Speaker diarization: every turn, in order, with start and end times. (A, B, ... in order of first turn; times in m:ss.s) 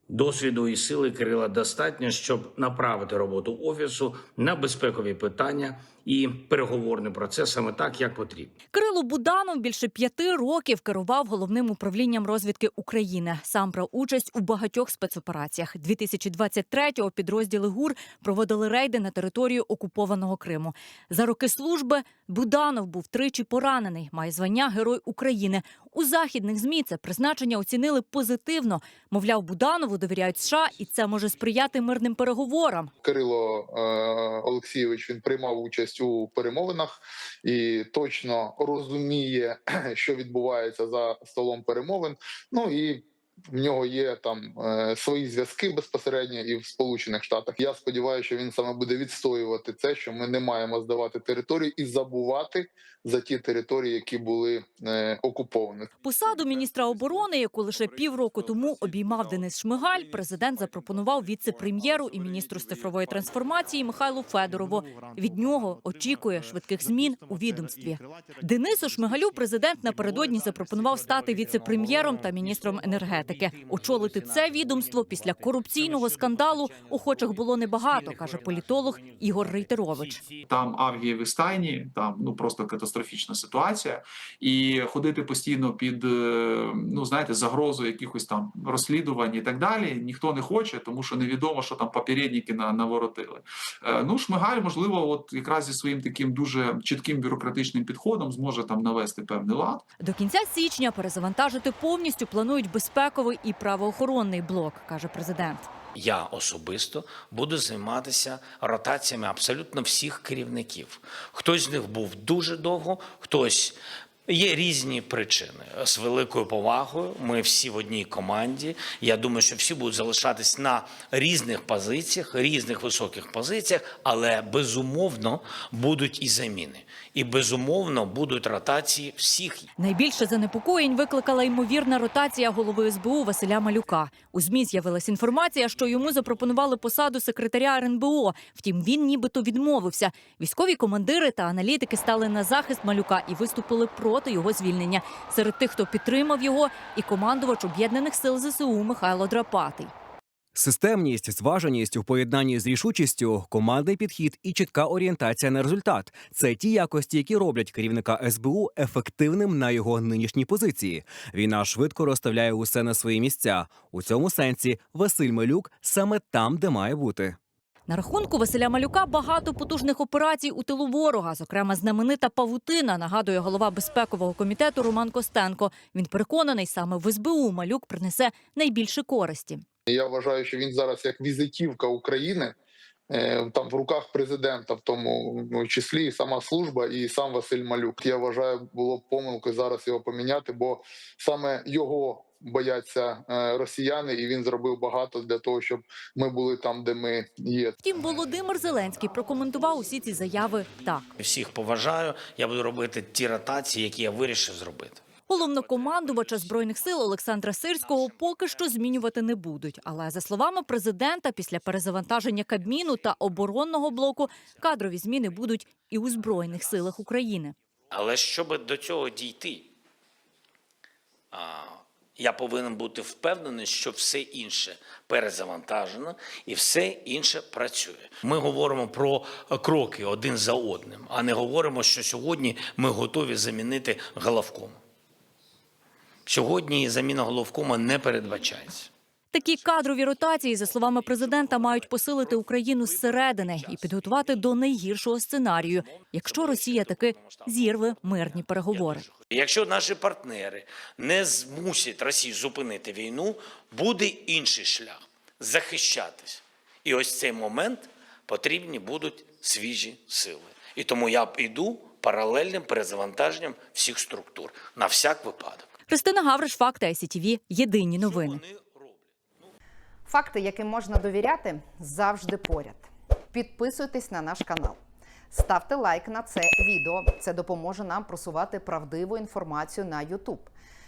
0:00.1-0:08.5 A
0:08.7-0:32.9 B
0:33.0-0:55.9 C
0:56.0-1:20.2 B
1:20.4-1:39.8 D
1:40.0-1:45.7 B
1:45.9-2:09.7 A
2:09.8-2:29.9 B
2:30.5-2:47.4 E
2:47.9-2:59.6 B
2:59.9-3:02.6 C
3:03.1-3:17.8 C
3:17.8-3:21.1 B
3:21.2-3:25.0 A
3:25.3-3:37.6 B
3:37.9-3:39.7 A
3:41.3-3:54.8 A
3:56.2-3:58.9 A
3:59.3-4:09.1 B
4:05.9-4:07.5 A
4:08.7-4:25.7 A
4:25.9-4:28.4 B
4:28.0-4:29.0 A
4:30.1-4:34.8 F
4:35.3-4:40.5 F